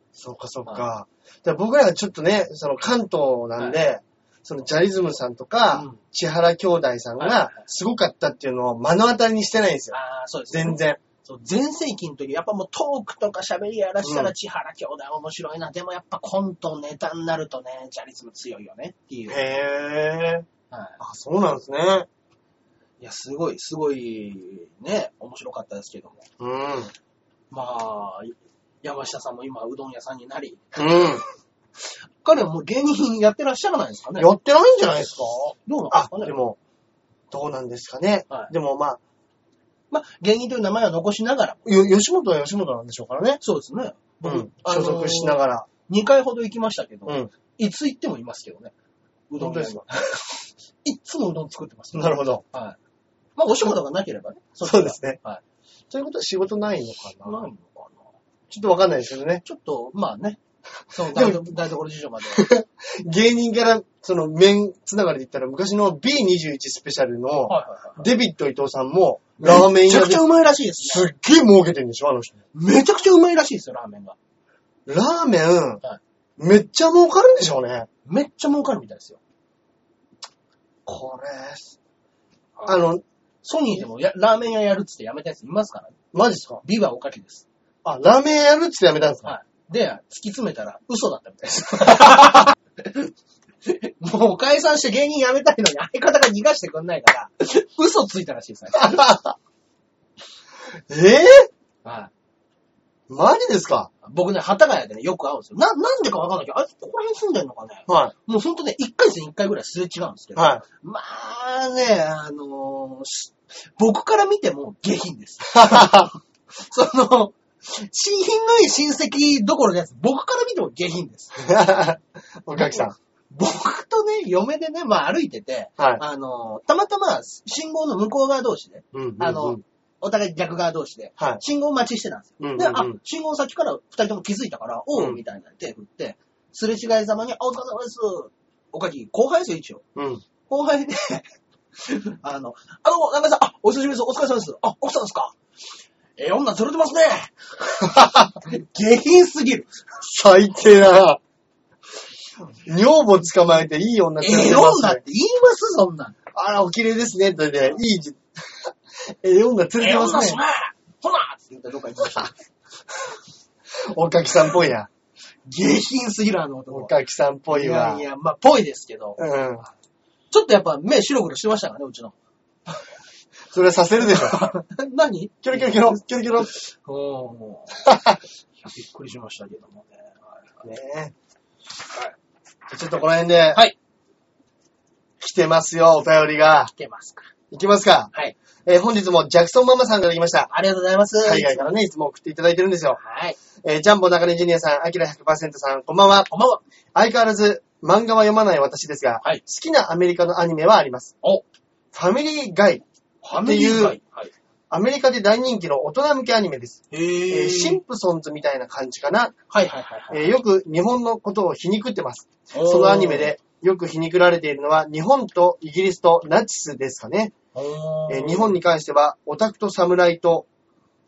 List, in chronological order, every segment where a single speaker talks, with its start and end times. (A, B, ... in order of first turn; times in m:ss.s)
0:00.2-0:10.0 A
0:05.7-0:06.0 B
0:07.2-0:07.7 B
0:09.9-0:19.4 B
0:10.5-0:11.0 A
0:14.0-0:14.3 A
0:19.3-0:20.4 A
0:20.7-0:21.0 B
0:21.0-0:22.1 A
0:23.0-0:26.3 B
0:26.4-0:26.9 A
0:27.5-0:31.2 B
0:30.8-0:31.2 A
0:32.2-0:34.3 B
0:34.2-0:36.6 A
0:35.7-0:36.4 B
0:37.3-0:39.0 A
0:39.9-0:41.7 B
0:41.6-0:43.4 A
0:43.4-0:48.7 B
0:44.2-0:45.7 A
0:49.3-0:52.8 B
0:49.4-0:49.8 A
0:51.9-0:52.4 A
0:53.4-0:55.4 B
0:54.6-0:55.2 A
0:55.9-0:57.4 A
0:57.2-0:58.0 B
0:58.5-0:59.4 A
0:59.4-1:02.5 B
1:01.0-1:01.5 A
1:02.3-1:10.2 A
1:07.5-1:08.1 B
1:09.4-1:11.1 B
1:10.8-1:12.4 A
1:12.5-1:14.2 B
1:14.9-1:15.8 A
1:16.4-1:17.9 A
1:18.0-1:19.2 B
1:20.9-1:21.7 A
1:22.7-1:23.0 A
1:23.4-1:26.0 B
1:26.1-1:26.6 A
1:26.6-1:27.4 B
1:27.8-1:29.3 A
1:29.2-1:33.1 B
1:33.6-1:39.1 B
1:38.7-1:39.3 A
1:40.9-1:41.5 A
1:41.8-1:42.1 B
1:43.1-1:43.9 A
1:44.0-2:01.4 B
1:47.9-1:48.1 A
1:50.4-1:50.6 A
1:55.5-1:56.1 A
2:01.4-2:03.0 A
2:03.3-2:19.8 B
2:08.9-2:09.6 A
2:12.4-2:13.0 A
2:20.0-2:20.2 A
2:20.5-2:21.2 B
2:21.8-2:25.4 B
2:26.2-2:29.8 B
2:27.9-2:28.2 A
2:30.0-2:31.2 A
2:32.7-2:35.0 A
2:34.2-2:36.2 B
2:36.3-2:40.4 A
2:39.8-2:42.3 B
2:43.9-2:44.9 A
2:45.4-2:46.9 B
2:46.7-2:48.0 A
2:47.5-2:49.2 B
2:49.2-2:49.6 A
2:50.3-2:52.1 B
2:53.5-2:54.5 A
2:54.0-2:57.9 B
2:55.4-2:56.5 A
2:57.8-2:58.2 A
2:58.6-3:00.6 B
3:00.6-3:01.1 A
3:02.7-3:03.6 A
3:05.2-3:06.7 A
3:06.8-3:07.3 B
3:07.5-3:08.1 A
3:08.7-3:10.5 A
3:10.5-3:11.7 B
3:11.2-3:13.0 A
3:12.9-3:13.4 B
3:13.6-3:16.3 A
3:16.3-3:16.6 B
3:17.0-3:21.1 A
3:21.9-3:22.8 A
3:23.2-3:24.3 B
3:23.4-3:24.0 A
3:24.7-3:29.3 A
3:26.9-3:27.8 B
3:29.5-3:30.4 B
3:30.1-3:37.3 A
3:32.5-3:33.3 B
3:37.5-3:38.6 B
3:38.1-3:40.4 A